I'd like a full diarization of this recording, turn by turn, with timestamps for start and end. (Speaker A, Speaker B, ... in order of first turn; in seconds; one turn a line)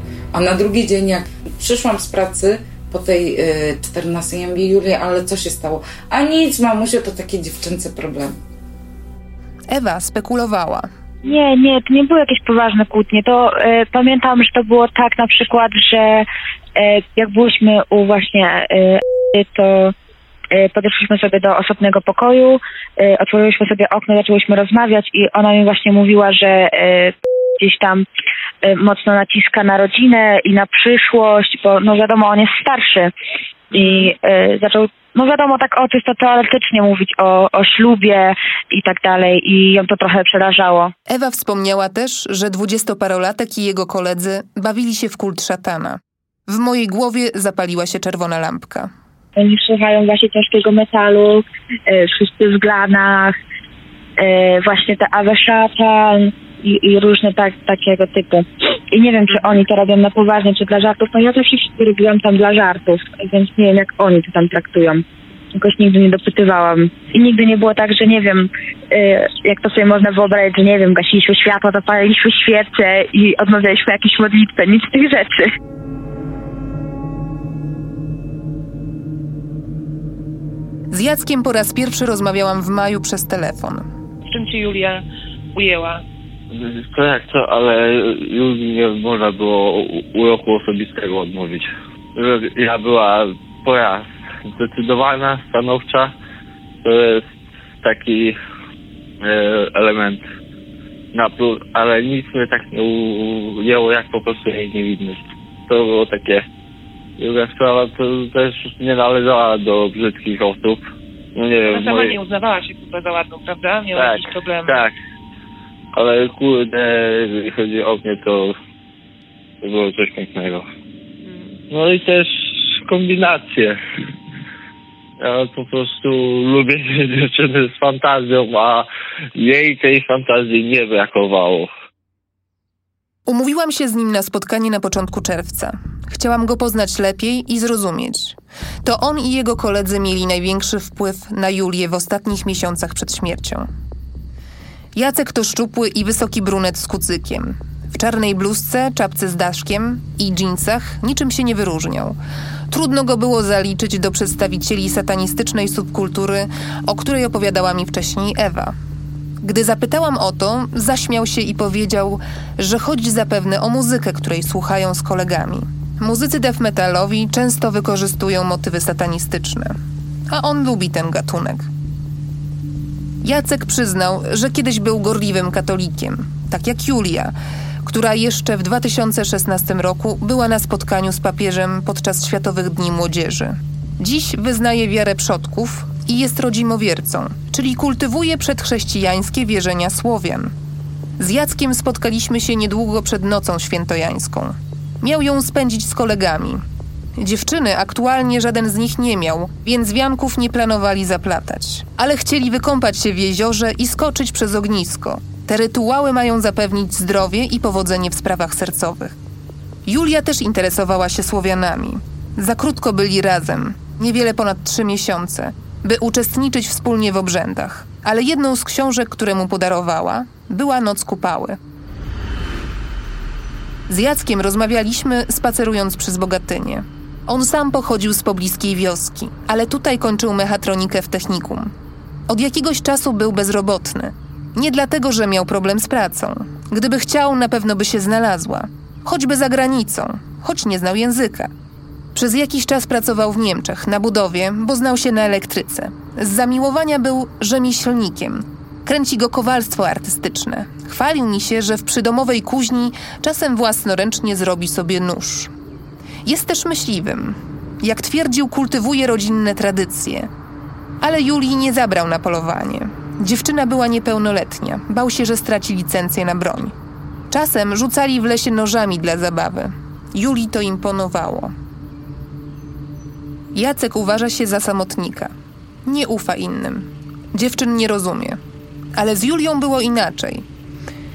Speaker A: 0.3-8.4
Speaker B: 9.7-10.9
Speaker C: 11.2-19.9
Speaker C: 20.5-28.1
Speaker C: 28.6-33.1
Speaker C: 33.7-40.9
Speaker B: 41.1-48.9
Speaker C: 49.4-53.4
Speaker C: 54.2-65.0
Speaker C: 65.5-75.5
Speaker B: 80.9-83.9
Speaker D: 84.3-85.0
Speaker D: 85.5-86.0
Speaker E: 86.5-96.1
Speaker E: 96.8-97.2
Speaker E: 97.8-98.4
Speaker E: 99.2-100.2
Speaker E: 101.1-106.4
Speaker E: 107.2-110.8
Speaker E: 111.4-112.2
Speaker D: 111.7-114.8
Speaker E: 113.9-114.9
Speaker E: 116.0-118.5
Speaker E: 119.6-120.7
Speaker D: 121.2-121.6
Speaker E: 121.7-122.3
Speaker E: 122.9-123.8
Speaker E: 125.2-131.7
Speaker B: 133.3-143.7
Speaker B: 144.9-152.2
Speaker B: 152.7-158.8
Speaker B: 159.4-169.8
Speaker B: 170.3-171.7
Speaker B: 173.2-190.5
Speaker B: 191.2-196.6
Speaker B: 197.2-209.2
Speaker B: 209.9-221.6
Speaker B: 223.9-231.7
Speaker B: 232.3-241.5
Speaker B: 242.2-255.5
Speaker B: 256.3-260.3
Speaker B: 261.0-266.8
Speaker B: 267.3-271.5
Speaker B: 273.5-275.3
Speaker B: 275.9-278.4
Speaker B: 278.9-280.4